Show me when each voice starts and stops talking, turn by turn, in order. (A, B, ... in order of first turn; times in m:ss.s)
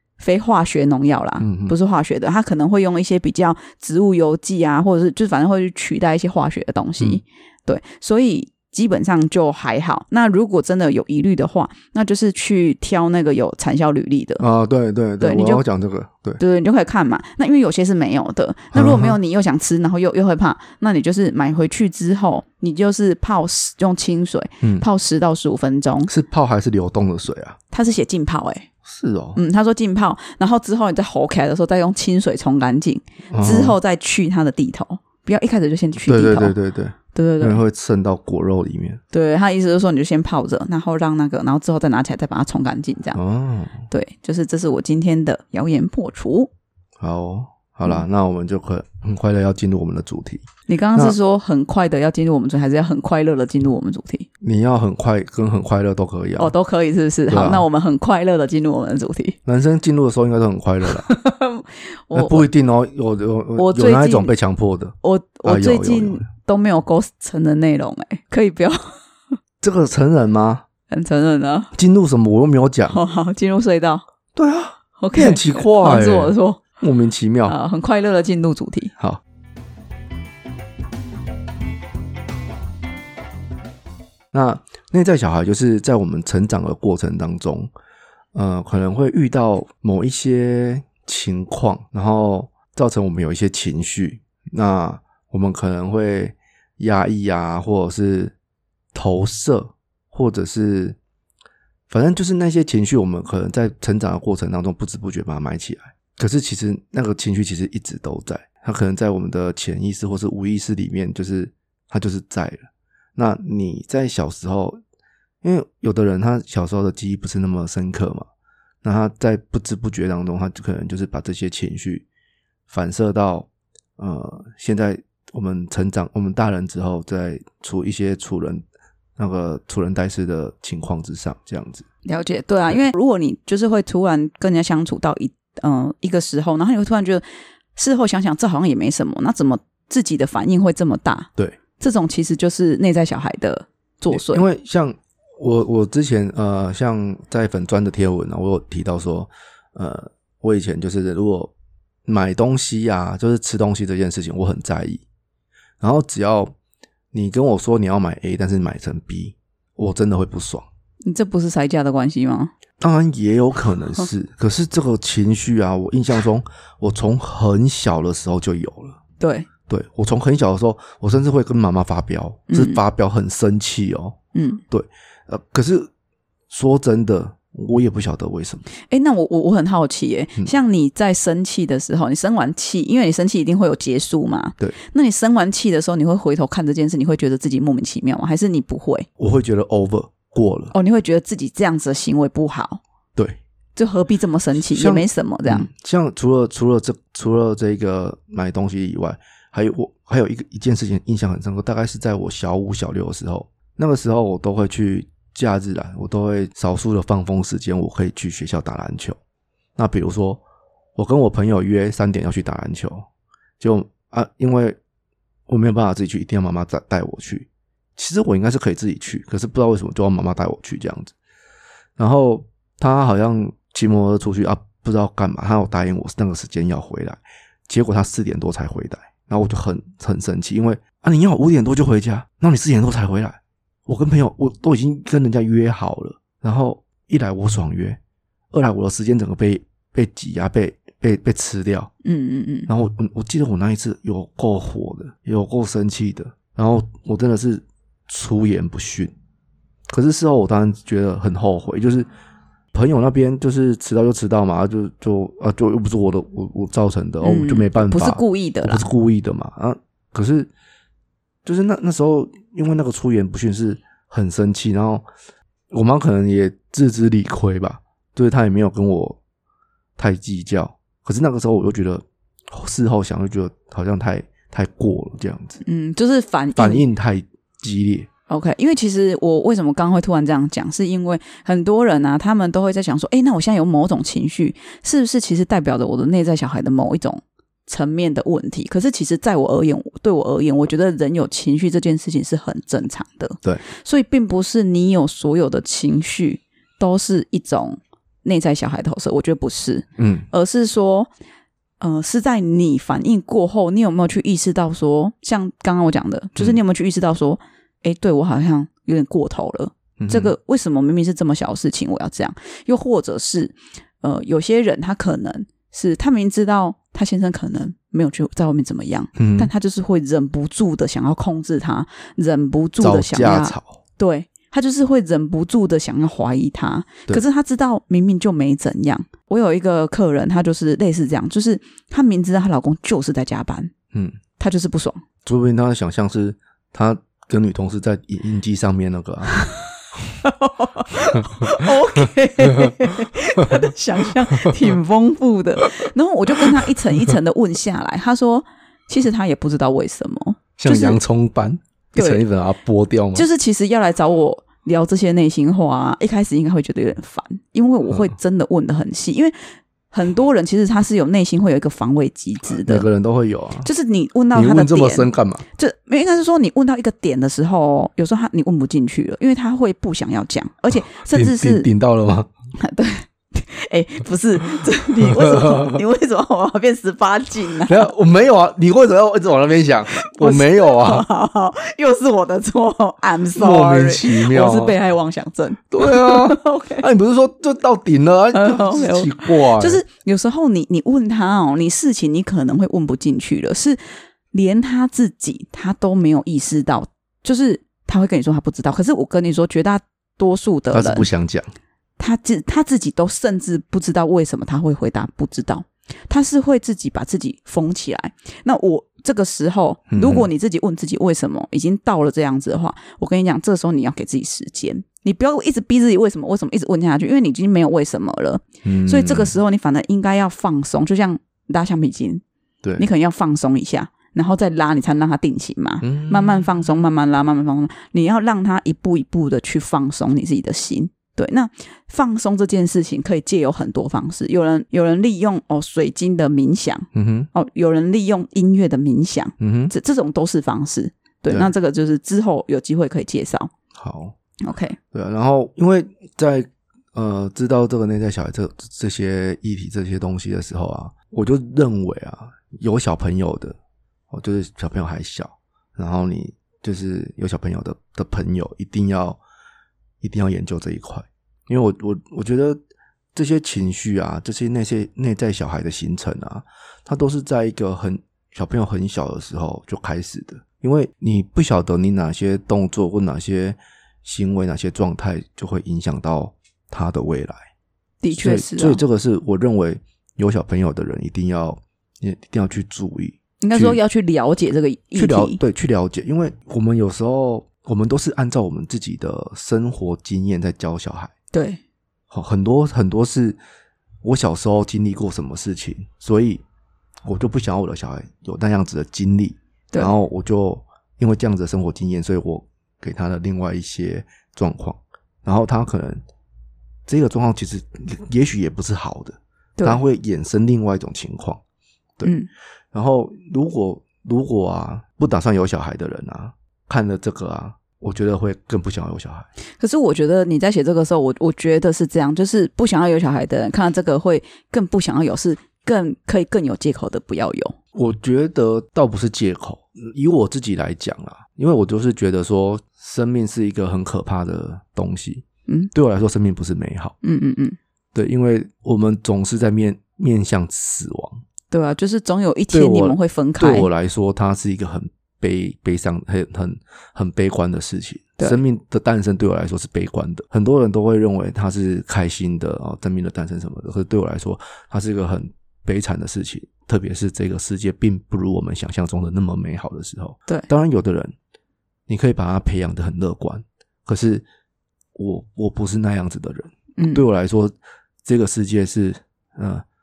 0:00.2-0:14.4 A
0:01.4-0:01.7 B
0:14.4-0:16.4 B
0:15.2-0:15.6 A
0:16.4-0:26.1 A
0:18.7-0:19.2 B
0:24.6-0:24.8 B
0:26.1-0:27.6 B
0:27.7-0:28.7 A
0:28.8-0:29.4 B
0:29.3-0:36.6 A
0:33.3-0:33.8 B
0:36.0-0:39.0 B
0:37.1-0:37.6 A
0:39.1-0:43.2 A
0:43.1-0:43.9 B
0:43.9-0:46.5 A
0:47.0-0:51.2 B
0:50.7-0:54.3 A
0:54.4-0:56.5 B
0:56.4-0:59.4 A
0:57.3-0:57.6 B
0:59.4-1:01.1 B
1:00.9-1:02.5 A
1:02.1-1:06.2 B
1:03.6-1:04.3 A
1:05.0-1:09.0 A
1:09.6-1:10.6 B
1:10.9-1:11.7 A
1:11.7-1:13.0 B
1:12.9-1:14.0 A
1:14.3-1:17.6 B
1:15.0-1:16.6 A
1:17.4-1:18.9 A
1:24.3-1:27.7 B
1:28.3-1:38.3 B
1:38.9-1:41.0 B
1:41.9-1:52.6 B
1:53.2-1:54.8 B
1:55.4-1:58.3 B
1:58.8-2:02.0 B
2:02.7-2:03.5 B
2:04.0-2:08.6 B
2:09.2-2:11.9 B
2:12.0-2:17.2 A
2:17.8-2:24.4 A
2:24.1-2:31.5 B
2:32.0-2:35.0 B
2:35.8-2:36.5 B
2:37.1-2:40.6 B
2:41.0-2:42.5 A
2:42.8-2:49.0 B
2:49.2-2:49.5 A
2:49.7-2:54.2 B
2:52.5-2:52.8 A
2:54.3-2:54.6 A
2:54.7-2:55.9 B
2:56.5-2:58.7 B
2:58.9-3:09.1 A
3:09.2-3:10.7 B
3:10.7-3:12.8 A
3:13.8-3:15.7 A
3:14.7-3:29.2 B
3:29.8-3:30.4 B
3:31.0-3:33.1 B
3:33.6-3:34.8 B
3:35.5-3:41.1 B
3:42.0-3:58.0 B
3:58.5-4:01.9 B
4:02.0-4:02.7 A
4:02.7-4:09.1 B
4:09.9-4:12.1 B
4:12.7-4:20.5 B
4:17.2-4:18.8 A
4:21.4-4:25.0 B
4:25.7-4:29.2 B
4:30.0-4:35.6 B
4:35.6-4:36.8 A
4:36.6-4:38.1 B
4:38.3-5:01.1 A
5:00.0-5:00.3 B
5:01.8-5:33.7 A
5:10.0-5:10.3 B
5:19.2-5:19.5 B
5:22.8-5:23.8 B
5:33.9-5:34.2 B
5:34.4-5:35.0 A
5:35.2-5:39.4 B
5:39.3-5:39.6 A
5:40.2-5:51.0 A
5:41.1-5:42.0 B
5:50.6-5:53.3 B
5:51.9-5:52.2 A
5:53.1-5:59.4 A
5:59.9-6:02.9 A
6:02.6-6:03.7 B
6:03.6-6:11.7 A
6:04.3-6:05.4 B
6:10.8-6:12.3 B
6:12.6-6:17.9 A
6:15.0-6:15.8 B
6:17.6-6:21.0 B
6:19.9-6:26.8 A
6:23.3-6:24.8 B
6:25.7-6:29.8 B
6:28.3-6:33.8 A
6:34.3-6:41.1 A
6:40.7-6:41.5 B
6:42.0-7:02.2 A
6:49.9-6:50.3 B
6:58.6-6:59.3 B
7:02.8-7:23.5 A
7:05.8-7:06.5 B
7:16.9-7:17.3 B
7:19.4-7:19.7 B
7:23.7-7:24.1 B
7:24.4-7:24.8 A
7:24.9-7:33.6 B
7:34.1-7:39.2 B
7:40.0-7:42.6 B
7:43.1-7:57.4 B
7:58.0-7:58.8 A
7:58.1-8:03.8 B
8:03.4-8:05.4 A
8:04.9-8:11.1 B
8:11.3-8:11.6 A
8:12.1-8:13.4 B
8:14.0-8:16.4 B
8:17.0-8:26.0 B
8:26.8-8:31.4 B
8:32.0-8:32.3 A
8:32.7-8:39.3 B
8:39.6-8:47.6 A
8:47.7-8:56.9 B
8:57.0-8:57.6 A
8:57.9-9:01.2 B
9:01.5-9:03.7 A
9:02.5-9:21.1 B
9:21.9-9:24.2 B
9:25.0-9:27.5 B
9:26.8-9:27.0 A
9:28.0-9:29.6 B